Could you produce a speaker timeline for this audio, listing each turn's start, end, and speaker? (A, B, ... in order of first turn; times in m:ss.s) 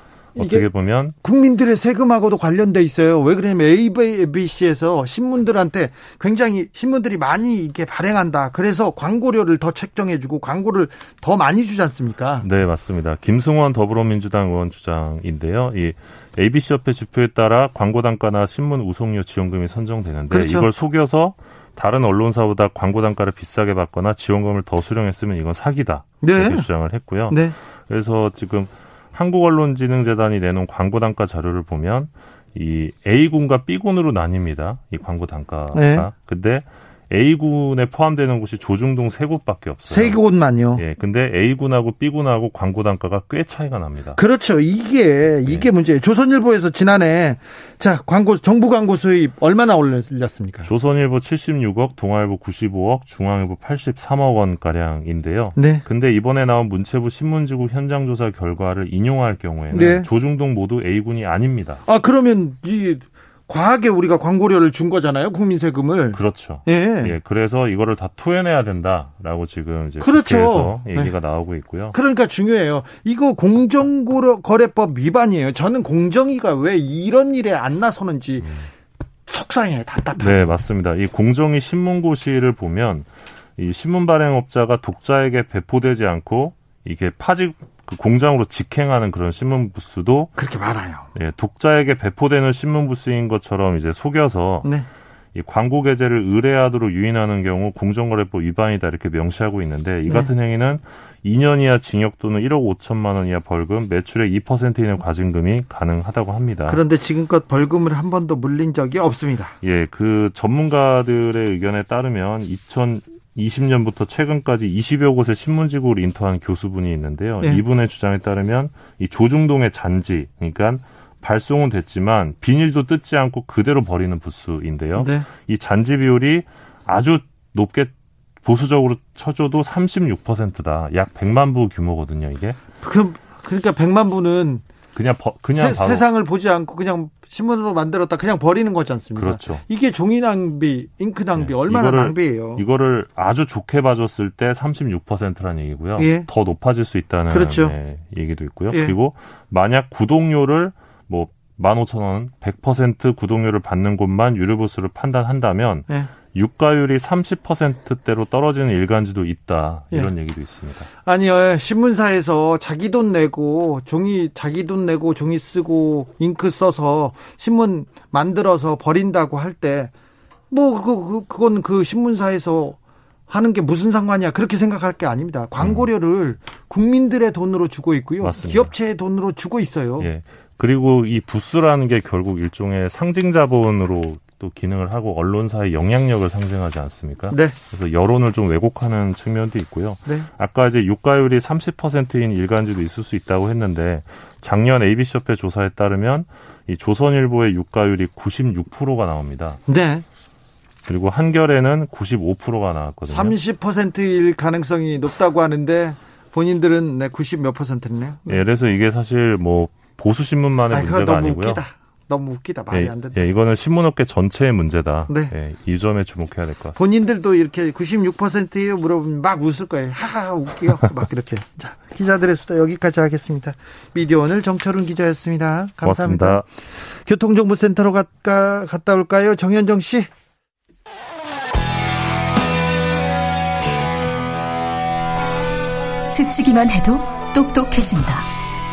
0:00.4-0:01.1 A
0:00.4-0:00.7 B
0:01.2-0:12.5 B
0:12.4-0:40.2 A
0:20.3-0:20.7 B
0:26.2-0:26.7 B
0:27.3-0:27.6 B
0:35.7-0:36.1 B
0:39.9-0:40.8 B
0:40.8-0:44.2 A
0:44.2-0:50.7 B
0:50.6-1:01.8 A
0:55.6-0:55.8 B
0:59.7-1:00.1 B
1:01.9-1:07.2 B
1:06.1-1:12.0 A
1:10.0-1:11.1 B
1:11.9-1:18.6 B
1:19.3-1:20.5 B
1:20.2-1:30.4 A
1:30.4-1:31.1 B
1:31.2-1:34.7 A
1:35.4-1:46.8 A
1:46.7-1:49.6 B
1:49.6-2:07.9 A
2:05.0-2:05.3 B
2:08.4-2:12.6 A
2:12.8-2:14.6 B
2:15.0-2:16.0 A
2:15.6-2:22.6 B
2:19.2-2:19.6 A
2:21.4-2:40.9 A
2:26.0-2:26.3 B
2:27.3-2:27.8 B
2:28.7-2:29.0 B
2:41.0-2:49.9 B
2:50.5-2:52.8 B
2:53.3-3:00.1 B
2:58.2-2:58.7 A
3:00.0-3:19.6 A
3:07.3-3:07.6 B
3:19.7-3:20.0 B
3:20.9-3:23.4 A
3:23.1-3:28.4 B
3:28.3-3:31.6 A
3:30.7-3:33.2 B
3:32.7-3:36.8 A
3:36.8-3:50.1 B
3:45.8-3:46.5 A
3:56.1-3:58.3 C